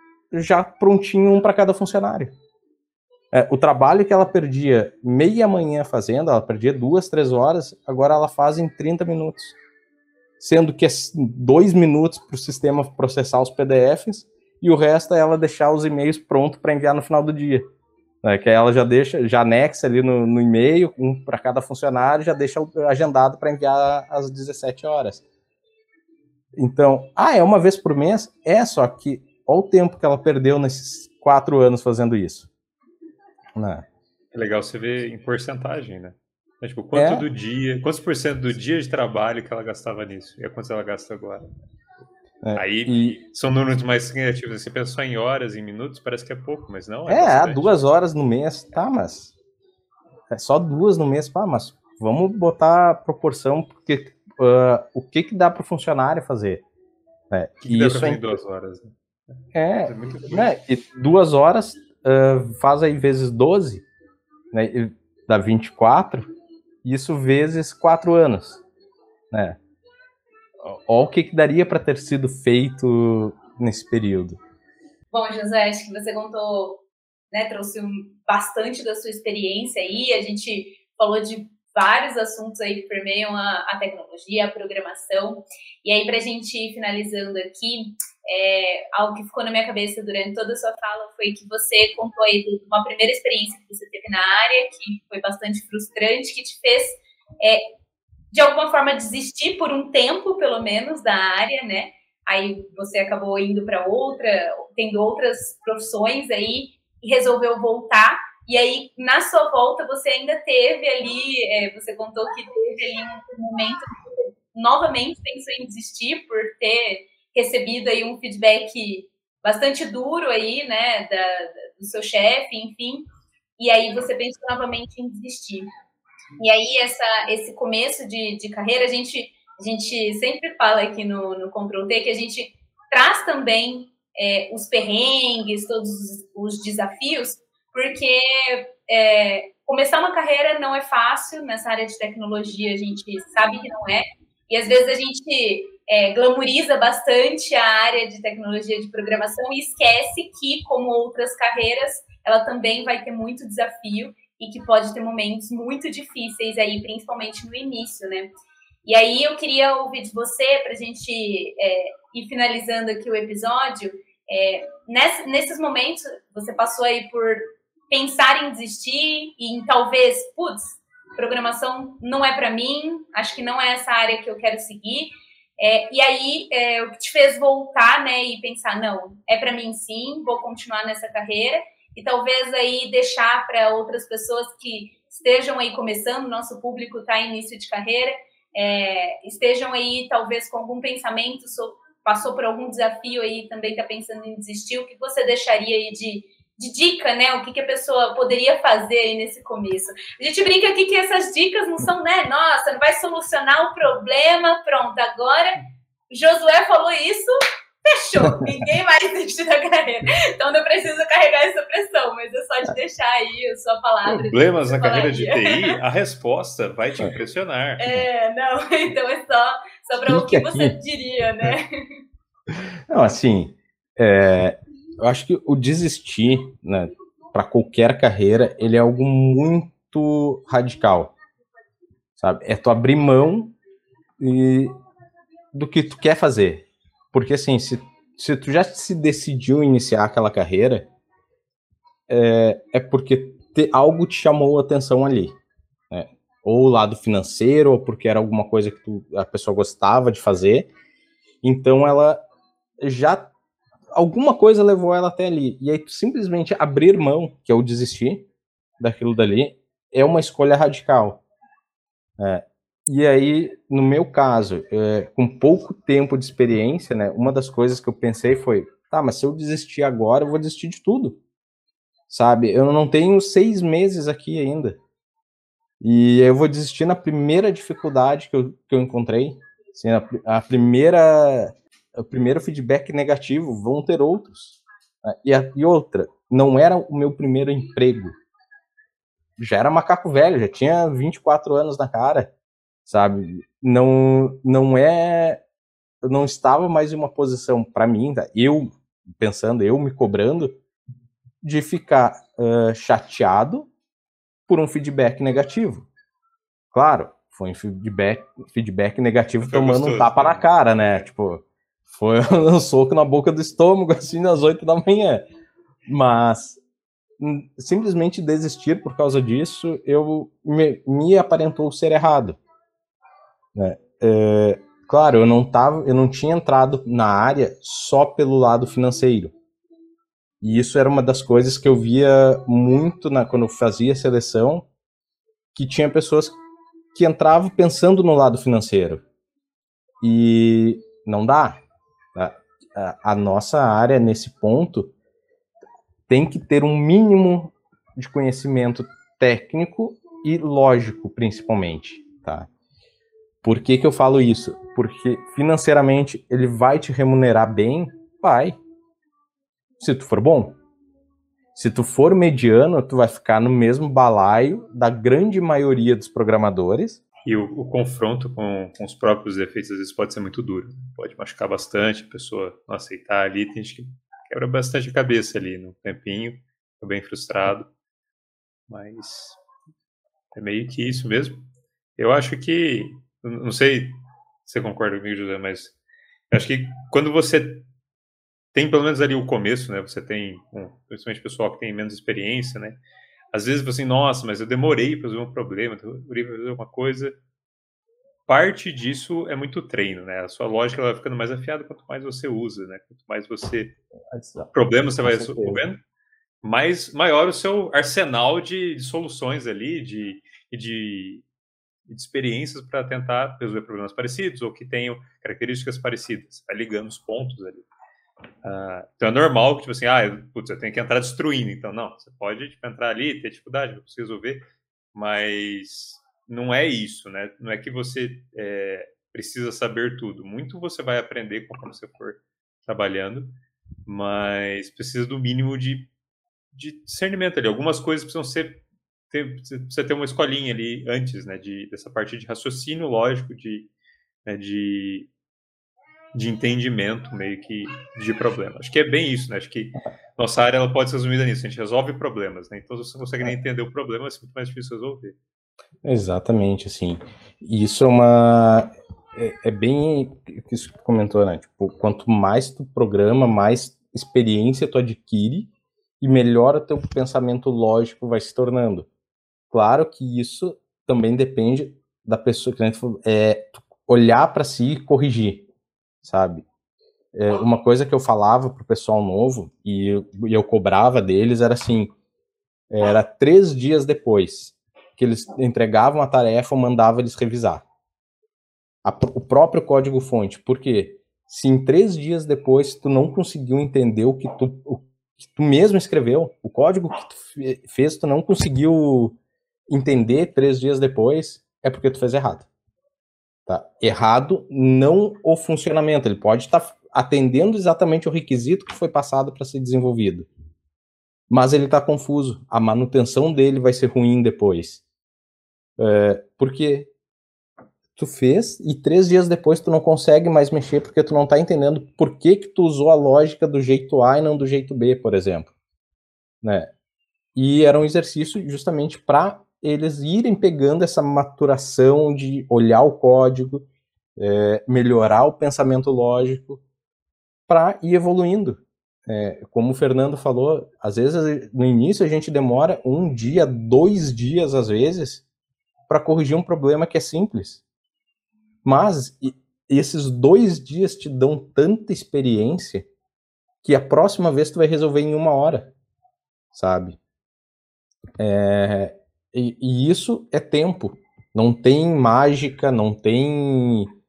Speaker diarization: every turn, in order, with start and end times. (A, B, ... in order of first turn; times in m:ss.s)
0:00.3-0:02.3 A
0:03.3-0:09.5 A
0:10.4-0:17.6 A
0:18.2-0:25.2 A
0:26.6-0:32.5 A
0:33.6-0:33.8 A
0:34.3-0:41.4 B
0:36.9-0:37.3 A
0:42.4-0:43.2 A
0:42.5-0:47.8 B
0:47.1-0:49.3 A
0:50.3-0:56.6 A
0:57.3-0:58.2 A
0:57.6-0:59.3 B
0:59.5-1:03.8 A
0:59.8-1:00.5 B
1:04.5-1:06.2 A
1:06.8-1:08.6 A
1:09.3-1:09.6 A
1:10.6-1:14.4 A
1:15.1-1:37.6 C
1:38.3-2:03.0 C
2:03.6-2:05.7 C
2:06.4-2:38.3 C
2:38.8-3:25.5 C
3:26.1-3:27.3 C
3:27.9-3:35.8 C
3:34.0-3:38.0 B
3:37.8-3:41.6 C
3:40.0-3:40.8 A
3:42.5-3:51.1 A
3:52.2-3:53.6 A
3:54.2-3:54.7 A
3:55.5-4:00.9 A
4:02.1-4:05.3 A
4:05.9-4:10.7 A
4:11.4-4:12.2 A
4:12.8-4:13.3 A
4:13.9-4:18.3 A
4:18.8-4:21.2 A
4:22.2-4:31.2 A
4:32.1-4:34.8 A
4:35.8-4:48.1 A
4:49.4-4:52.3 A
4:52.8-4:55.4 A
4:56.0-5:00.6 A
5:01.4-5:03.7 A
5:04.5-5:05.9 A
5:06.7-5:15.2 A
5:09.4-5:10.5 B
5:15.8-5:16.6 A
5:17.2-5:22.4 A
5:23.5-5:29.3 A
5:30.4-5:34.7 A
5:35.5-5:36.3 A
5:36.9-5:39.0 A
5:40.0-5:41.6 A
5:42.1-5:44.9 A
5:46.1-5:52.5 A
5:53.4-5:58.6 A
5:59.8-6:00.6 A
6:01.5-6:07.0 A
6:07.2-6:17.7 B
6:18.7-6:19.4 B
6:20.3-6:21.4 B
6:22.0-6:25.8 B
6:26.3-6:27.6 B
6:28.5-6:32.8 B
6:33.3-6:37.2 B
6:38.3-6:43.7 B
6:44.1-6:44.5 A
6:44.5-6:45.8 B
6:45.0-6:45.6 A
6:46.4-6:51.2 B
6:51.9-6:57.7 B
6:58.4-7:15.9 B
7:16.5-7:23.7 B
7:24.2-7:25.1 B
7:26.1-7:35.2 B
7:35.8-7:48.9 A
7:49.5-7:55.5 A
7:56.0-7:56.4 A
7:57.1-8:01.9 A
8:02.7-8:07.6 A
8:08.8-8:19.2 A
8:19.7-8:22.5 A
8:23.5-8:30.3 A
8:31.3-8:34.8 A
8:35.8-8:36.9 A
8:38.0-8:45.5 A
8:46.4-8:46.7 A
8:47.3-8:53.6 A
8:54.2-8:56.6 A
8:57.5-9:05.2 A
9:05.9-9:07.6 A
9:08.6-9:12.9 A
9:13.6-9:15.7 A
9:16.5-9:17.0 A
9:18.2-9:23.9 A